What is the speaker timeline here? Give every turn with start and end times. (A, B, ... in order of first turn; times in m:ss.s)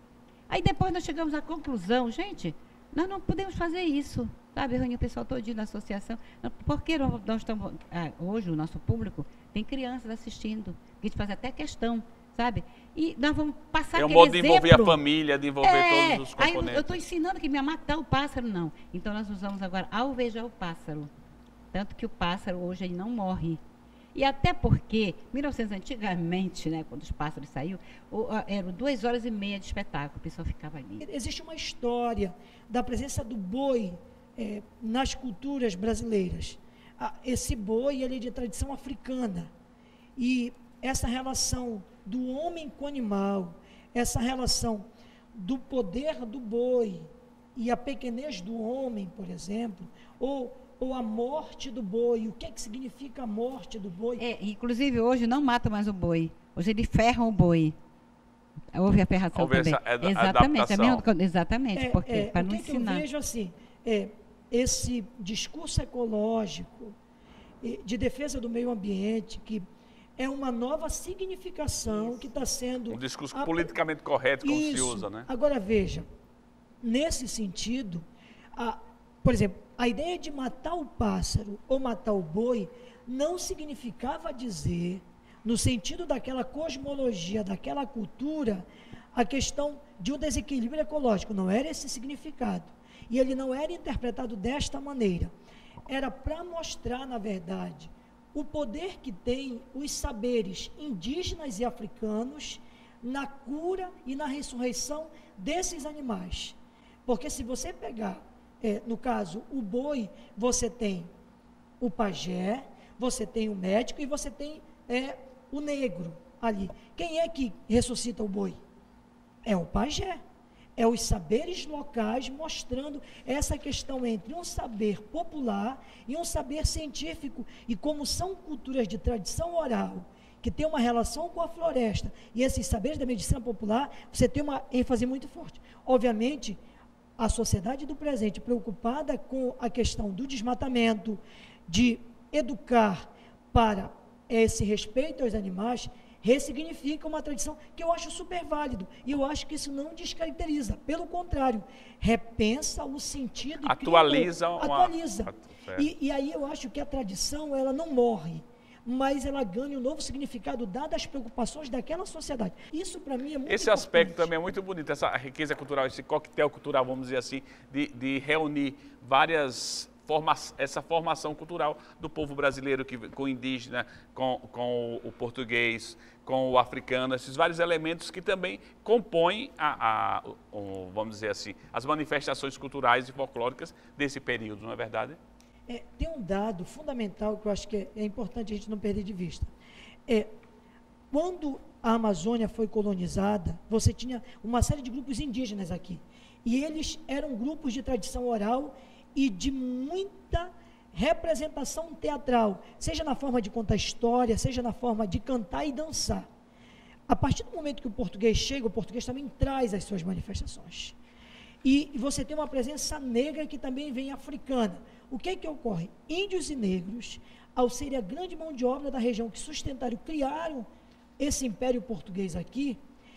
0:00.5-0:15.0 A
0:14.0-0:17.0 B
0:15.6-0:21.1 A
0:21.7-0:23.6 A
0:24.1-0:31.0 A
0:31.0-0:39.5 C
0:40.2-0:54.2 C
0:54.2-0:57.7 A
0:58.7-1:03.0 A
0:59.3-1:01.0 B
1:01.7-1:06.9 C
1:07.6-1:09.6 C
1:10.2-1:13.8 C
1:12.9-1:15.3 B
1:14.4-1:16.1 C
1:16.8-1:35.3 C
1:35.9-1:51.1 C
1:51.8-1:58.6 C
1:59.4-2:00.2 C
2:00.8-2:16.6 C
2:17.2-2:44.3 C
2:33.6-2:35.9 B
2:43.4-3:05.2 B
3:05.7-3:09.5 C
3:10.1-3:10.3 C
3:11.1-3:26.3 C
3:27.1-3:31.0 C
3:31.6-3:40.7 C
3:41.2-3:42.8 C